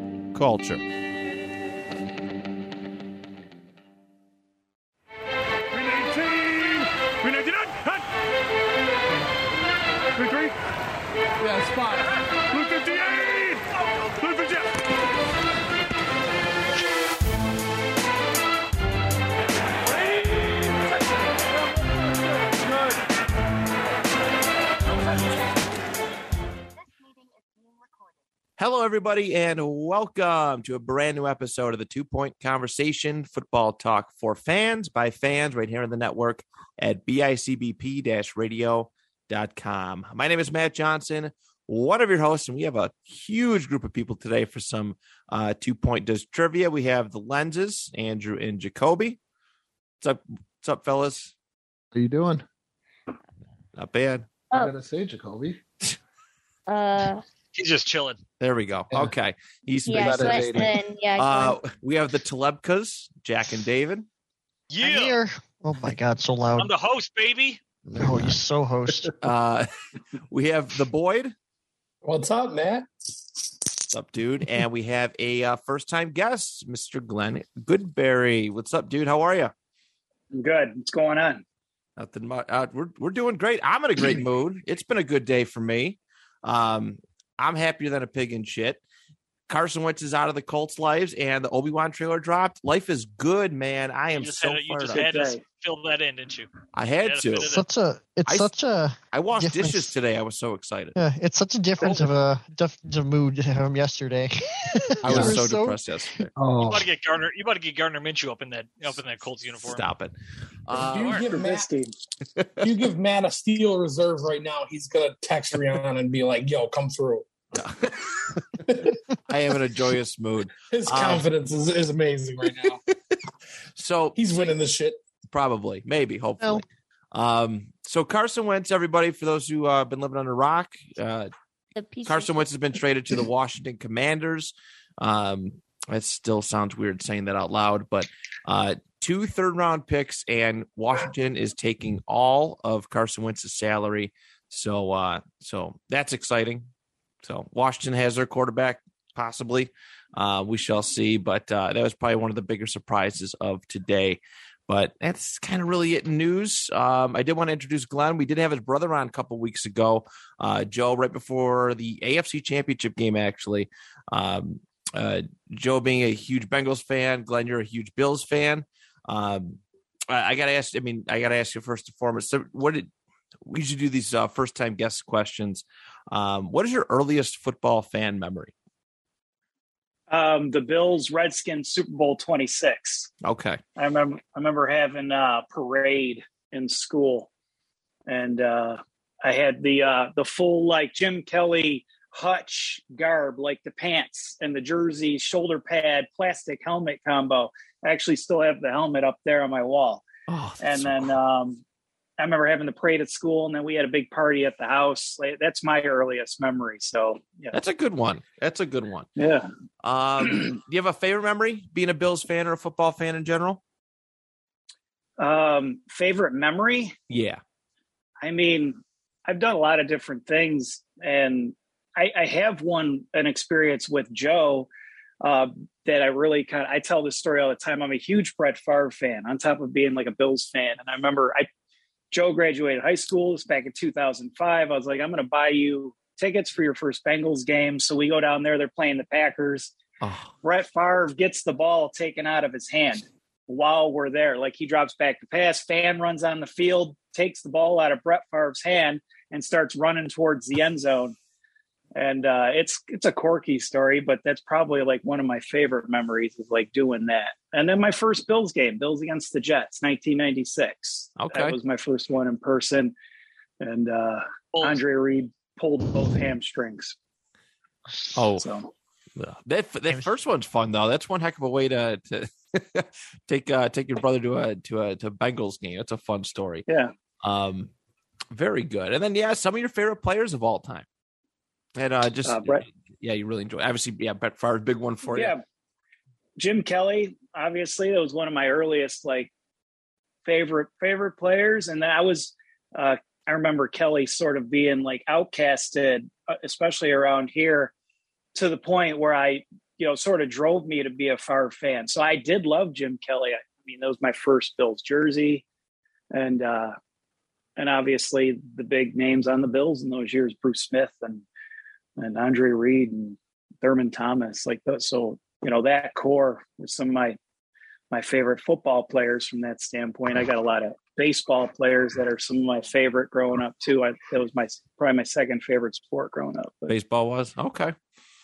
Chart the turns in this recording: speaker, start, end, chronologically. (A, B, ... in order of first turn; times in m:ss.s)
0:00.3-0:00.8 A
0:11.4-0:12.0 B
0:28.6-0:49.2 A
0:50.0-0:51.3 A
0:51.9-0:52.4 C
0:53.8-0:54.3 A
0:54.5-0:55.6 C
0:56.7-0:57.2 D
0:57.6-0:58.2 E
0:58.4-1:04.1 A
0:59.8-1:01.6 D
0:59.9-1:00.8 C
1:04.7-1:05.2 E
1:04.8-1:06.7 F
1:06.6-1:07.6 E
1:08.0-1:09.1 F
1:09.2-1:09.7 A
1:10.3-1:11.3 A
1:12.0-1:12.9 B
1:13.9-1:19.5 A
1:20.3-1:21.4 G
1:22.0-1:28.8 A
1:29.5-1:35.1 A
1:34.1-1:37.6 E
1:34.9-1:35.4 G
1:36.7-1:37.5 A
1:37.4-1:40.0 F
1:38.3-1:38.5 A
1:39.1-1:41.0 A
1:41.0-1:45.8 F
1:41.8-1:42.1 E
1:45.0-1:46.3 A
1:45.0-1:45.4 C
1:46.4-1:46.9 C
1:46.7-1:49.8 E
1:49.6-1:50.1 A
1:50.6-1:51.2 A
1:50.8-1:51.7 B
1:50.9-1:51.2 E
1:51.3-1:51.9 G
1:52.3-1:52.7 A
1:52.6-1:57.3 B
1:57.6-1:58.6 A
1:58.7-1:59.0 B
1:59.3-2:01.3 A
2:00.7-2:02.8 B
2:02.6-2:02.9 A
2:03.8-2:04.2 A
2:04.2-2:05.0 B
2:05.3-2:11.3 A
2:11.7-2:12.5 D
2:12.0-2:26.7 A
2:27.2-2:52.9 A
2:53.4-2:58.5 A
3:00.1-3:03.1 G
3:03.2-3:03.6 A
3:03.8-3:07.3 G
3:08.1-3:20.1 G
3:20.3-3:21.1 A
3:20.6-3:21.6 G
3:22.2-3:27.6 G
3:27.5-3:29.1 A
3:29.2-3:29.5 G
3:29.8-3:33.6 A
3:35.2-3:36.9 G
3:37.1-3:37.4 A
3:38.2-3:51.5 G
3:52.1-3:59.7 G
4:00.0-4:00.3 A
4:00.4-4:11.2 G
4:11.9-4:22.9 G
4:21.2-4:21.6 A
4:23.6-4:27.0 G
4:24.5-4:24.8 E
4:28.2-4:28.5 A
4:28.3-4:28.7 G
4:29.2-4:36.6 A
4:36.7-4:36.9 G
4:37.2-4:37.7 A
4:38.3-4:40.9 A
4:41.8-4:45.4 A
4:42.2-4:42.6 G
4:45.0-4:45.4 G
4:46.4-4:49.3 G
4:50.2-4:57.7 G
4:58.4-5:05.4 G
5:06.1-5:06.8 G
5:07.6-5:11.2 G
5:12.0-5:17.2 G
5:17.9-5:26.8 G
5:26.7-5:27.8 A